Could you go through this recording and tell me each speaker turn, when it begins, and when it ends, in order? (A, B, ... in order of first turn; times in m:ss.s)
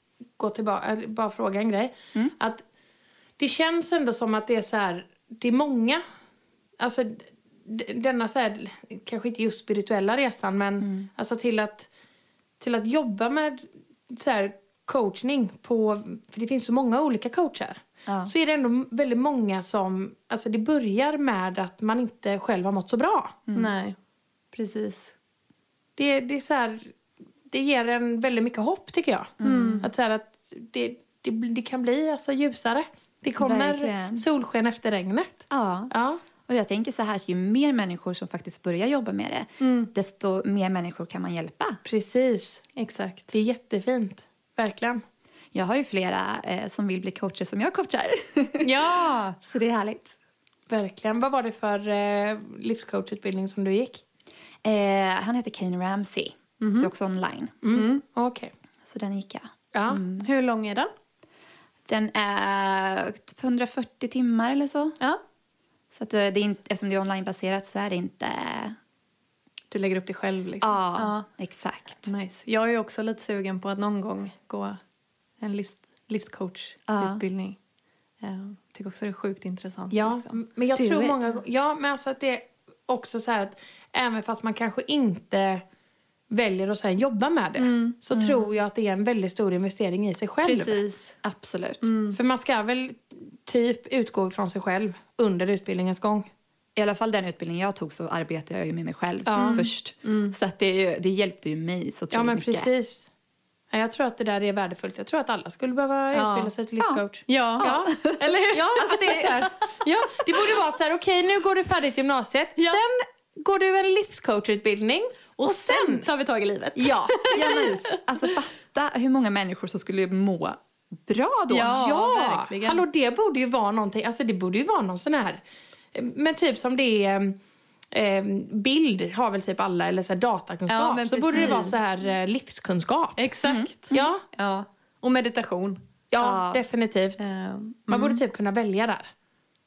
0:00.4-0:02.6 A
0:03.4-0:06.0 A
0:06.8-0:11.9 A
0:10.8-0:11.1 B
0:12.6-0:23.4 A
0:18.1-0:18.3 B
0:23.6-0:24.0 C
0:24.5-0:25.1 C
0:26.0-0:26.9 A
0:27.5-0:36.2 A
0:29.4-0:29.9 B
0:29.4-0:29.9 C
0:33.4-0:34.2 B
0:35.5-0:35.9 B
0:36.5-0:41.8 B
0:39.6-0:39.9 C
0:41.8-0:42.6 A
0:42.8-0:43.3 C
0:43.3-0:45.0 A
0:45.5-0:48.8 B
0:48.6-0:49.4 C
0:49.4-0:50.2 B
0:50.7-0:54.0 A
0:54.6-0:57.6 B
0:56.6-0:56.9 C
0:57.6-0:58.5 A
0:57.7-0:58.0 C
0:58.8-1:00.3 B
0:59.7-1:00.0 A
1:00.2-1:00.9 C
1:01.9-1:05.0 B
1:05.9-1:08.8 B
1:09.7-1:11.2 C
1:10.6-1:12.1 B
1:12.1-1:14.8 C
1:15.4-1:17.6 C
1:16.9-1:17.2 B
1:18.2-1:20.4 C
1:19.9-1:25.6 A
1:20.8-1:21.2 B
1:26.3-1:30.8 A
1:27.6-1:28.0 C
1:28.1-1:28.5 B
1:30.4-1:31.2 C
1:31.2-1:31.9 B
1:31.8-1:32.2 C
1:32.1-1:36.3 A
1:36.8-1:42.7 B
1:39.2-1:39.6 A
1:39.4-1:40.4 C
1:42.1-1:43.1 A
1:43.7-1:56.1 A
1:46.1-1:46.5 C
1:47.3-1:49.5 C
1:47.6-1:49.3 B
1:55.4-1:58.0 C
1:56.8-1:57.6 A
1:57.3-2:01.9 B
2:01.5-2:02.8 C
2:01.6-2:05.4 A
2:05.9-2:07.4 A
2:07.9-2:13.2 A
2:10.7-2:11.8 C
2:13.2-2:15.8 C
2:13.4-2:14.0 B
2:13.9-2:14.2 A
2:16.1-2:17.3 A
2:16.2-2:16.6 B
2:17.2-2:18.2 C
2:17.9-2:19.1 A